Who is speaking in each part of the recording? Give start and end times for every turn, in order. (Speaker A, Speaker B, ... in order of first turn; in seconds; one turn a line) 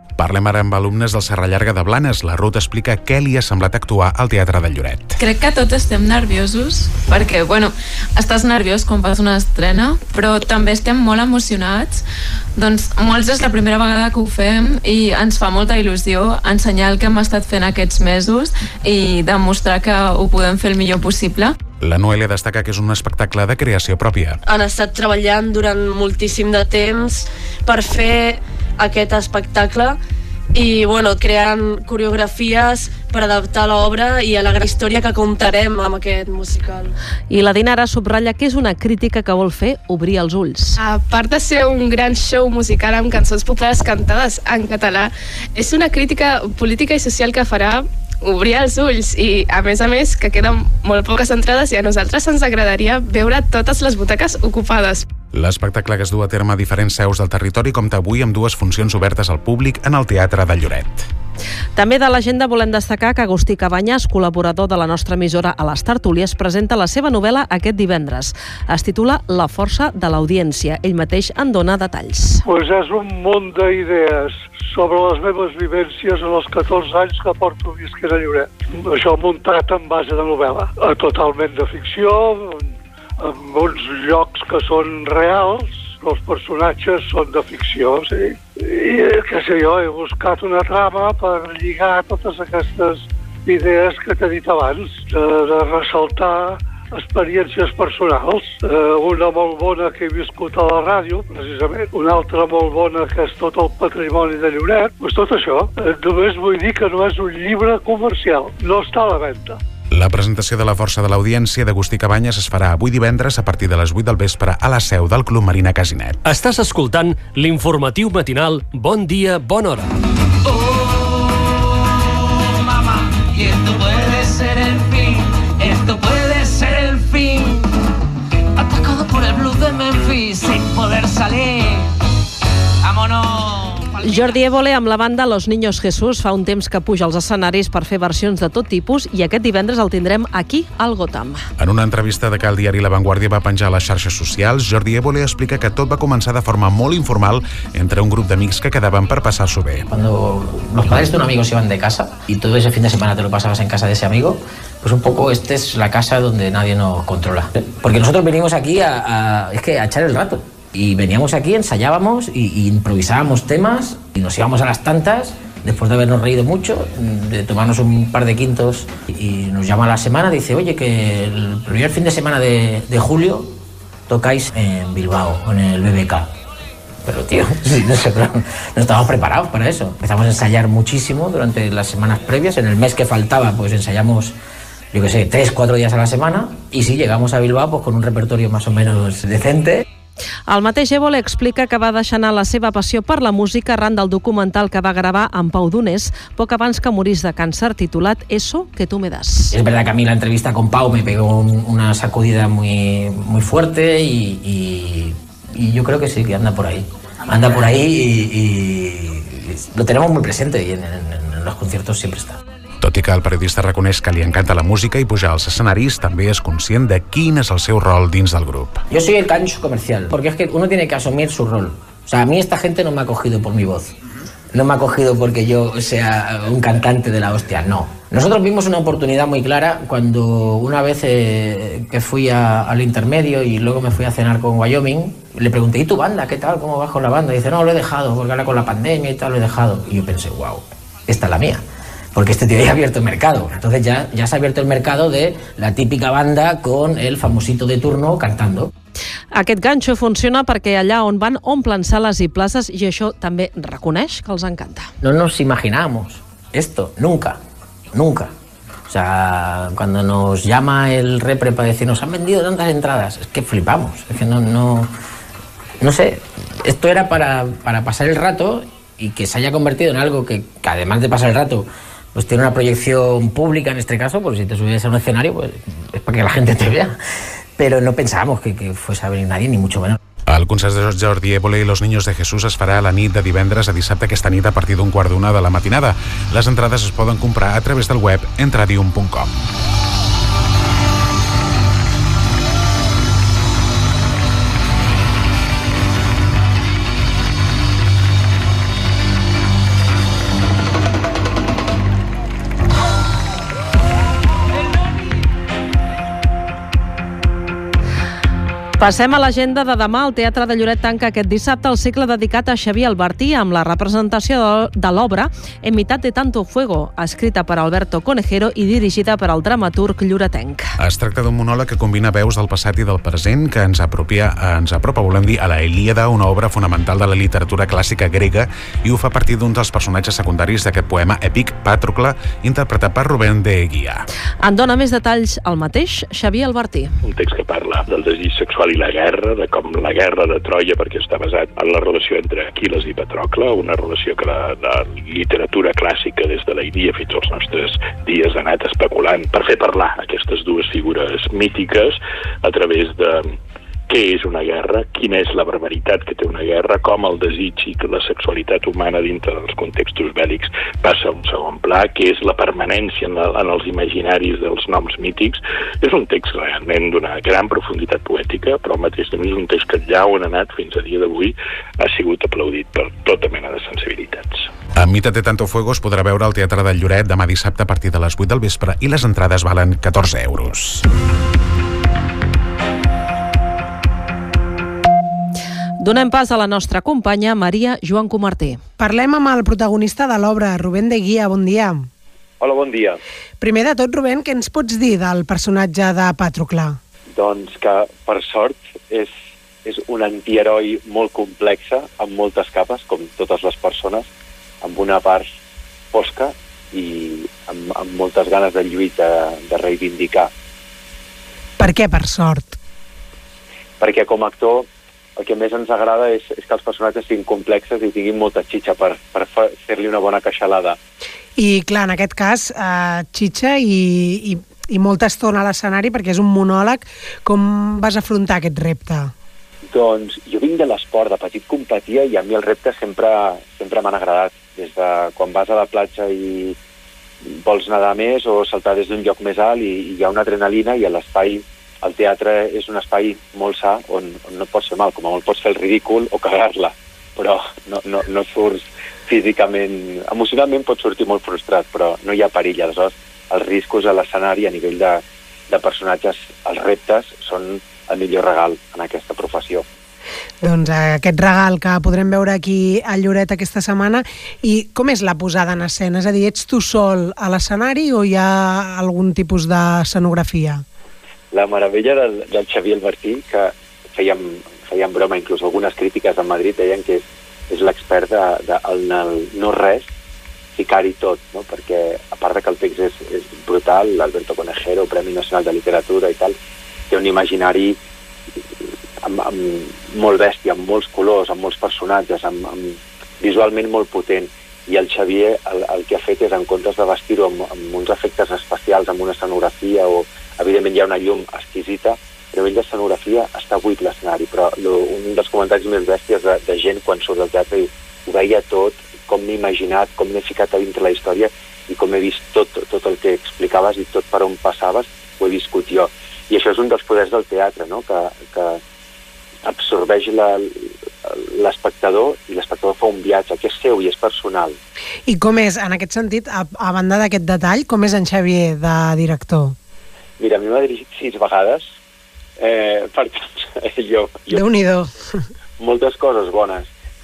Speaker A: 0.2-5.2
Speaker B: 5.2-12.0
Speaker B: 12.6-21.6
Speaker A: 21.8-24.4
Speaker C: 24.5-30.0
Speaker C: 30.5-36.9
Speaker D: 37.3-40.8
Speaker E: 40.8-55.1
Speaker A: 55.3-61.1
Speaker D: 61.8-72.4
Speaker F: 72.5-109.6
Speaker A: 109.9-116.2
Speaker G: 116.2-119.9
Speaker B: 120.5-121.4
Speaker B: 122.7-127.7
Speaker B: 128.6-131.8
Speaker B: 132.8-134.1
Speaker D: 134.0-141.4
Speaker A: 141.6-149.9
Speaker H: 149.9-173.5
Speaker H: 174.1-176.3
Speaker H: 177.1-184.3
Speaker H: 184.9-189.8
Speaker D: 190.5-199.6
Speaker H: 199.5-212.4
Speaker A: 212.8-218.8
Speaker H: 218.9-223.9
Speaker H: 224.5-241.6
Speaker H: 242.2-248.7
Speaker D: 249.3-254.9
Speaker H: 255.0-257.4
Speaker H: 257.9-258.3
Speaker H: 258.9-264.9
Speaker H: 265.8-277.0
Speaker H: 277.6-280.0
Speaker A: 280.3-289.3
Speaker D: 308.8-320.7
Speaker A: 320.8-334.1
Speaker D: 334.4-336.9
Speaker I: 337.1-353.3
Speaker I: 353.9-374.5
Speaker A: 374.8-380.9
Speaker D: 385.8-388.6
Speaker J: 388.8-391.9
Speaker K: 392.4-393.0
Speaker J: 393.4-396.8
Speaker K: 397.1-399.1
Speaker K: 399.6-404.1
Speaker K: 404.6-405.3
Speaker K: 405.9-410.3
Speaker J: 411.6-412.6
Speaker K: 413.8-420.8
Speaker J: 421.4-429.1
Speaker K: 429.7-436.6
Speaker K: 437.3-459.6
Speaker J: 460.4-470.6
Speaker K: 471.3-479.9
Speaker K: 480.6-486.4
Speaker K: 486.9-487.8
Speaker K: 489.0-518.6
Speaker K: 519.5-520.7
Speaker K: 521.3-524.6
Speaker J: 525.1-529.5
Speaker K: 530.2-531.7
Speaker K: 532.4-534.5
Speaker J: 534.4-534.9
Speaker K: 535.6-536.7